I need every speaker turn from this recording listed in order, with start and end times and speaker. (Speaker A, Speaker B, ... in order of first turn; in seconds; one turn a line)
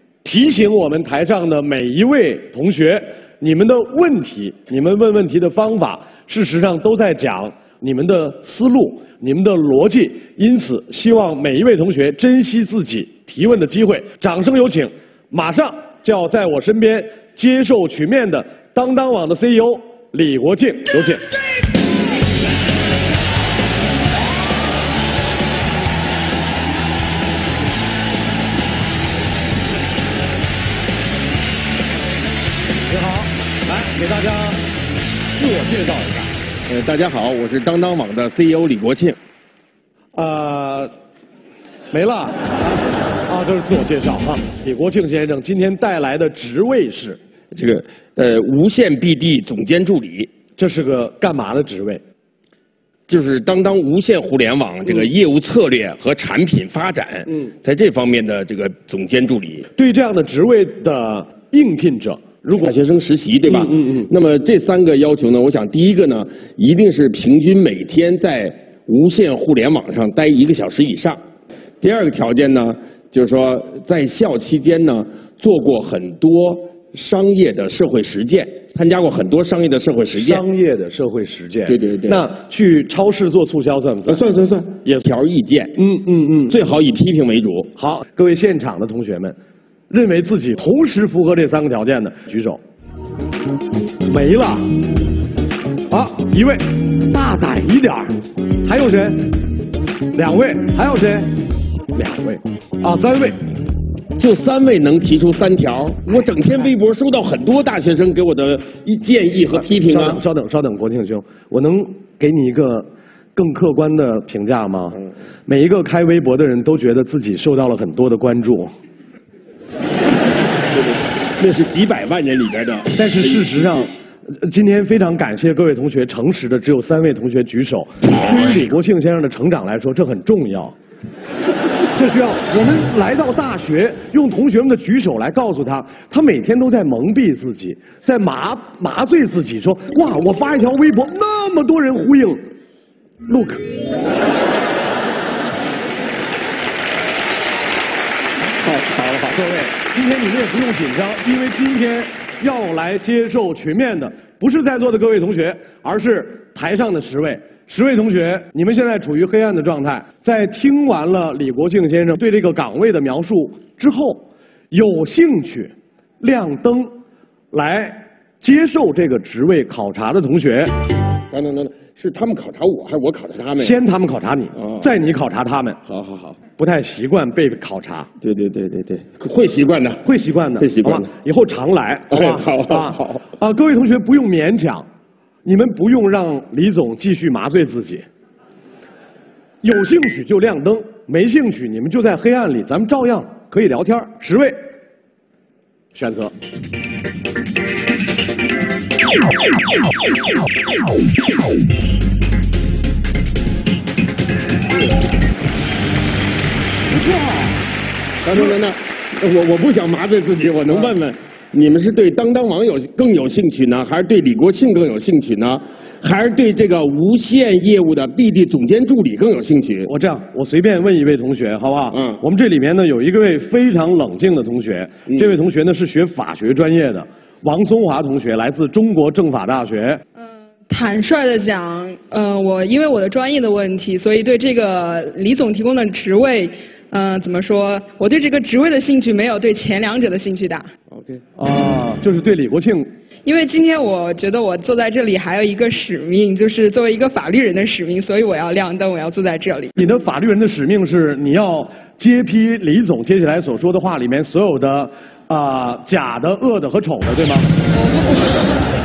Speaker A: 0.2-21.2
Speaker A: 32.9-34.6
Speaker A: 35.4-36.3
Speaker B: 36.7-39.2
Speaker A: 40.1-40.9
Speaker A: 41.9-47.2
Speaker B: 47.5-50.3
Speaker A: 50.6-52.0
Speaker B: 53.1-59.7
Speaker A: 59.8-62.7
Speaker B: 62.6-71.2
Speaker A: 63.5-64.1
Speaker B: 71.8-80.4
Speaker A: 80.1-85.1
Speaker B: 81.7-82.2
Speaker B: 84.1-85.8
Speaker A: 85.8-86.6
Speaker B: 86.5-87.7
Speaker A: 87.8-89.4
Speaker A: 89.9-92.6
Speaker A: 94.1-94.7
Speaker A: 95.9-99.3
Speaker A: 100.2-101.3
Speaker A: 101.9-103.4
Speaker B: 104.2-110.2
Speaker A: 109.8-118.7
Speaker B: 120.7-122.9
Speaker A: 122.9-130.8
Speaker A: 131.9-142.4
Speaker A: 143.3-143.7
Speaker A: 148.7-166.9
Speaker A: 167.5-170.7
Speaker B: 171.3-173.8
Speaker A: 173.6-175.8
Speaker B: 174.6-174.9
Speaker B: 175.9-176.4
Speaker A: 176.5-178.1
Speaker B: 178.2-180.0
Speaker A: 180.0-184.9
Speaker B: 180.6-181.1
Speaker B: 182.1-183.2
Speaker A: 185.4-188.1
Speaker A: 189.6-194.6
Speaker A: 195.9-196.3
Speaker B: 208.2-219.9
Speaker A: 219.9-230.0
Speaker B: 221.9-222.2
Speaker C: 230.2-240.7
Speaker A: 241.4-242.9
Speaker C: 243.2-249.7
Speaker A: 249.8-257.5
Speaker C: 257.8-258.6